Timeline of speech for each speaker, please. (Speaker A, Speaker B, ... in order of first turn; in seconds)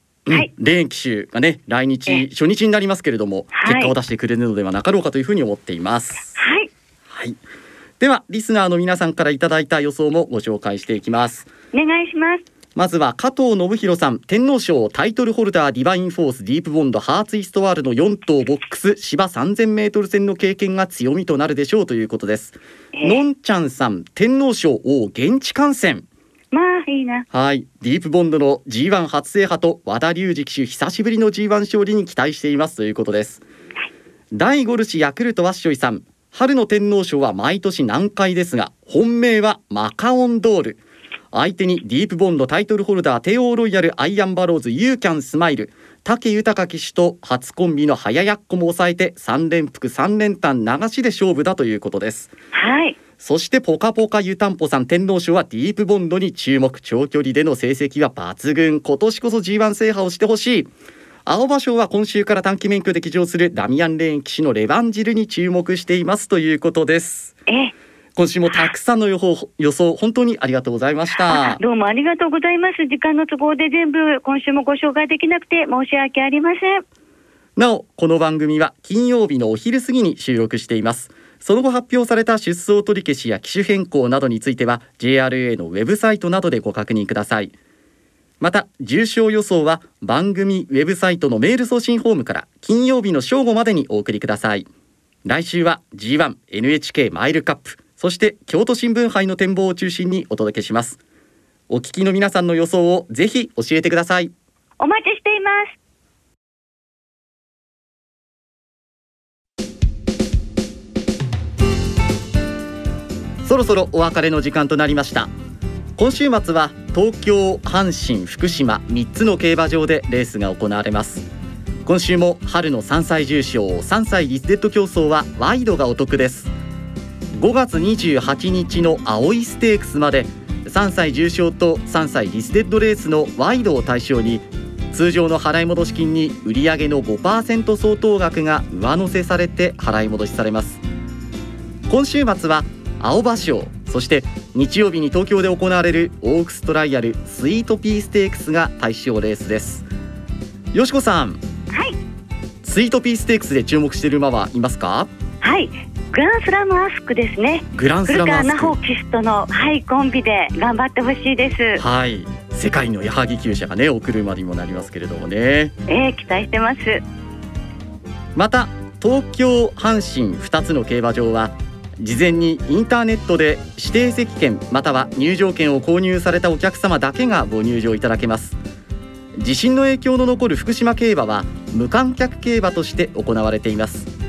Speaker A: 0.2-6.3, 7.1-7.4, 8.0-11.5, 12.8-26.1, 27.3-33.4, 34.3-40.8, 41.3-52.3, 53.2-60.7, 61.2-67.3, 68.2-71.6, 77.5-87.5, 88.4-94.7, 95.2-101.0, 101.7-104.3, 113.4-115.3, 116.0-121.3, 121.8-126.5, 127.3-140.8, 141.9-149.9, 150.7-151.4, 152.6-155.1, 157.7-158.8, 161.8-165.7, 168.3-178.6, 179.4-184.1
Speaker B: 3.5-3.9, 6.3-6.7, 11.7-12.4, 22.9-23.2, 26.5-27.3, 52.5-53.0, 67.5-67.7, 71.3-76.8, 104.8-105.7, 151.7-151.9, 155.4-161.8, 165.9-167.0